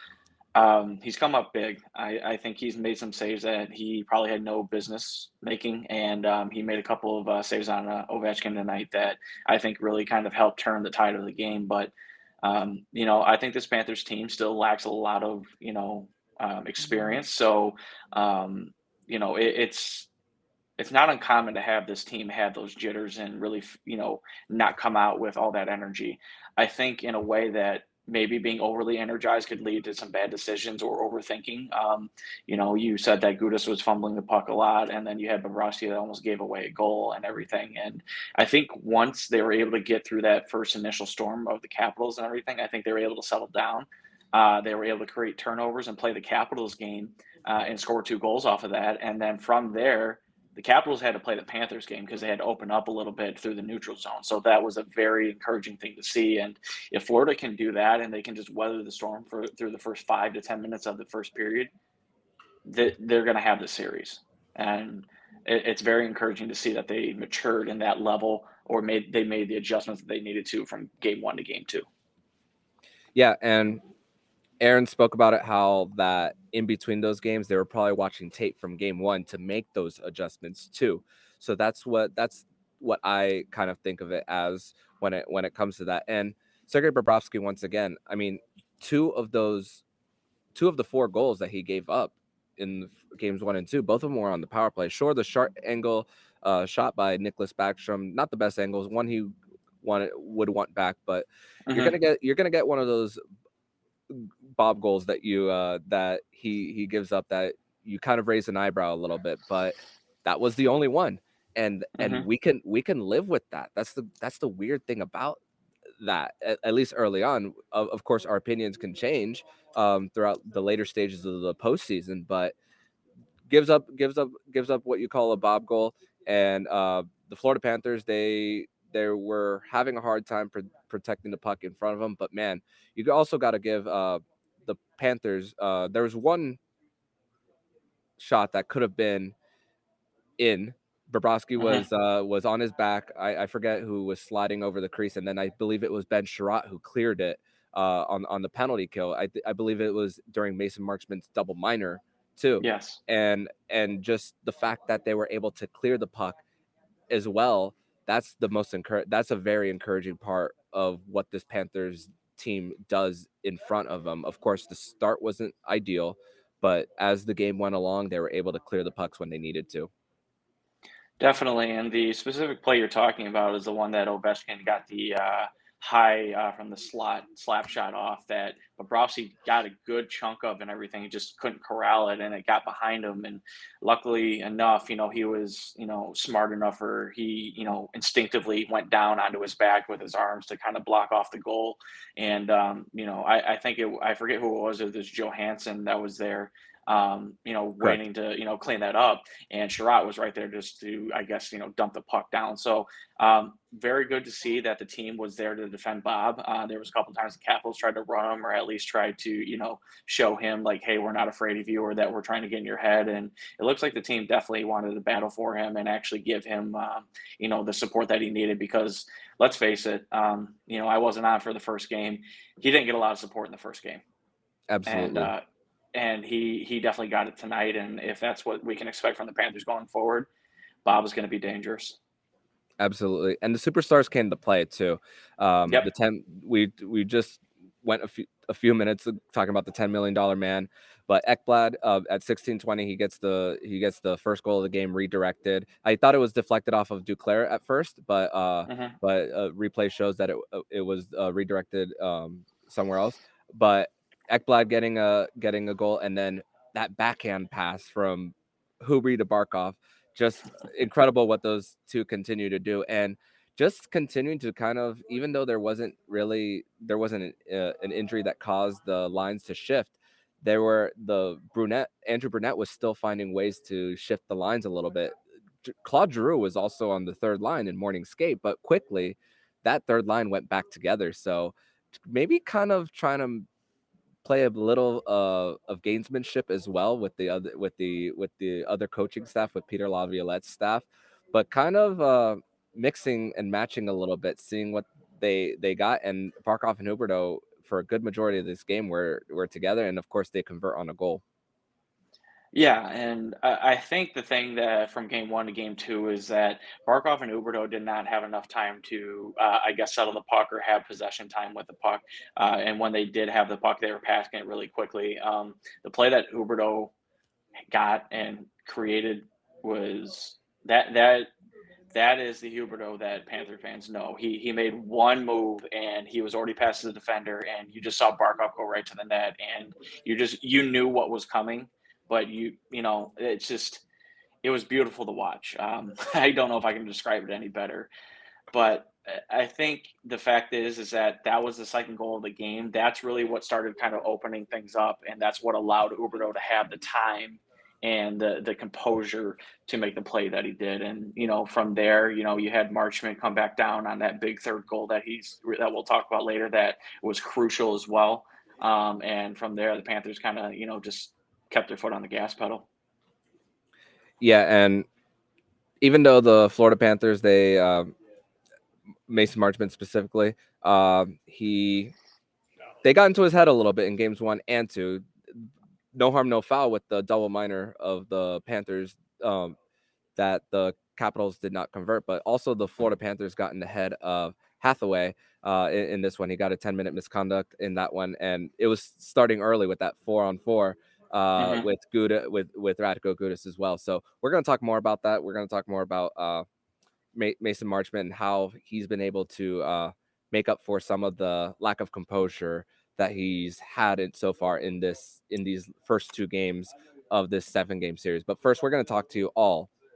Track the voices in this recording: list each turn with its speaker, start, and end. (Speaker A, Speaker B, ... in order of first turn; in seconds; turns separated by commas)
Speaker A: 0.5-20.1, Speaker A: 20.8-61.7, Speaker A: 62.6-71.8, Speaker B: 73.1-73.8, Speaker B: 74.6-89.8, Speaker B: 90.5-103.2, Speaker A: 101.7-101.9, Speaker B: 104.1-115.4, Speaker A: 112.0-112.3, Speaker B: 116.0-122.5, Speaker B: 123.5-136.6, Speaker B: 138.2-139.3, Speaker B: 140.4-156.4, Speaker A: 141.6-141.8, Speaker A: 152.6-153.0, Speaker B: 157.1-169.9, Speaker A: 171.2-224.0, Speaker B: 224.7-225.3, Speaker A: 224.8-225.4, Speaker A: 225.9-230.3, Speaker A: 230.8-232.0, Speaker B: 232.8-281.5, Speaker A: 248.7-248.9, Speaker B: 282.0-283.5, Speaker B: 284.2-301.2, Speaker A: 302.5-316.9, Speaker A: 317.7-321.3, Speaker A: 321.9-333.8, Speaker A: 334.4-337.9, Speaker A: 338.5-362.7, Speaker B: 364.2-364.9, Speaker B: 365.8-367.9, Speaker B: 369.1-371.9, Speaker B: 372.8-379.6, Speaker B: 380.1-396.4, Speaker A: 391.4-391.7, Speaker B: 397.1-409.7